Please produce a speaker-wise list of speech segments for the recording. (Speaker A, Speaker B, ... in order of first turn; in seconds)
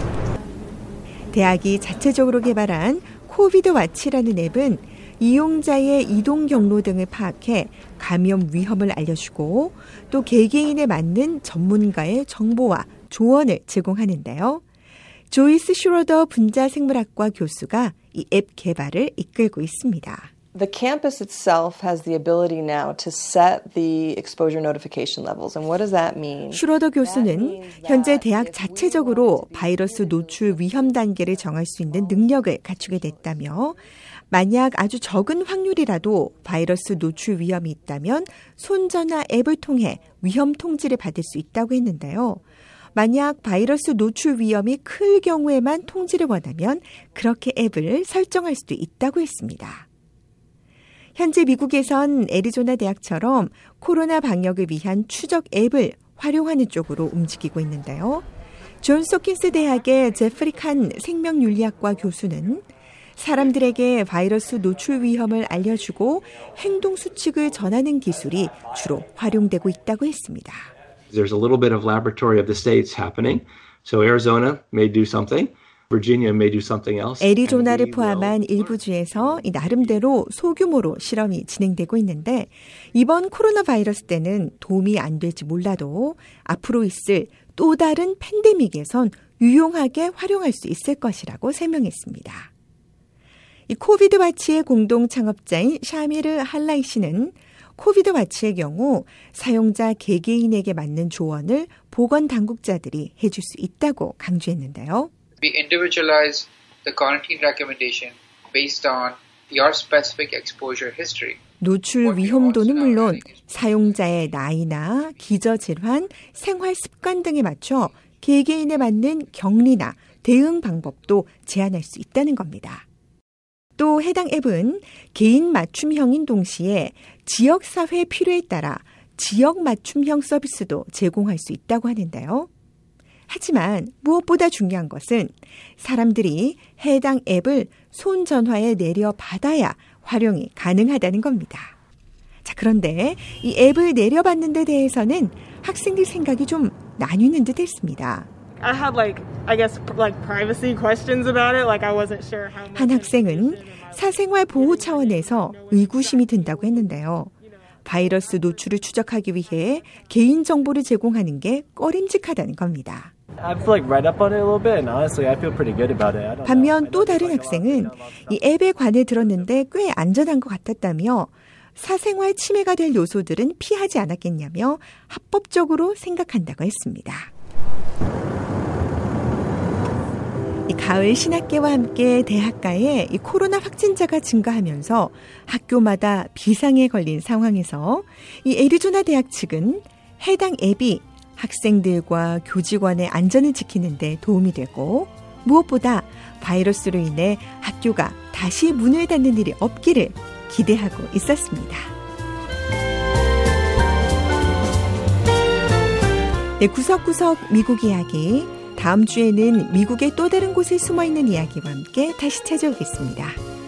Speaker A: 1.3-14.6, 15.3-20.3, 26.5-33.8, 34.3-42.4, 42.9-49.9, 51.1-58.2, 58.8-70.7, 77.2-92.5, 93.7-105.1, 111.6-122.8, 123.8-132.5, 133.3-141.7, 142.4-148.3, 152.7-157.3, 157.8-163.1, 166.4-177.3, 180.7-201.9, 206.6-213.4
Speaker B: 20.5-29.9
Speaker C: 71.1-77.5, 78.0-78.3
Speaker D: 105.4-111.4, 112.2-113.2
Speaker E: 148.6-156.9
Speaker F: 163.4-168.4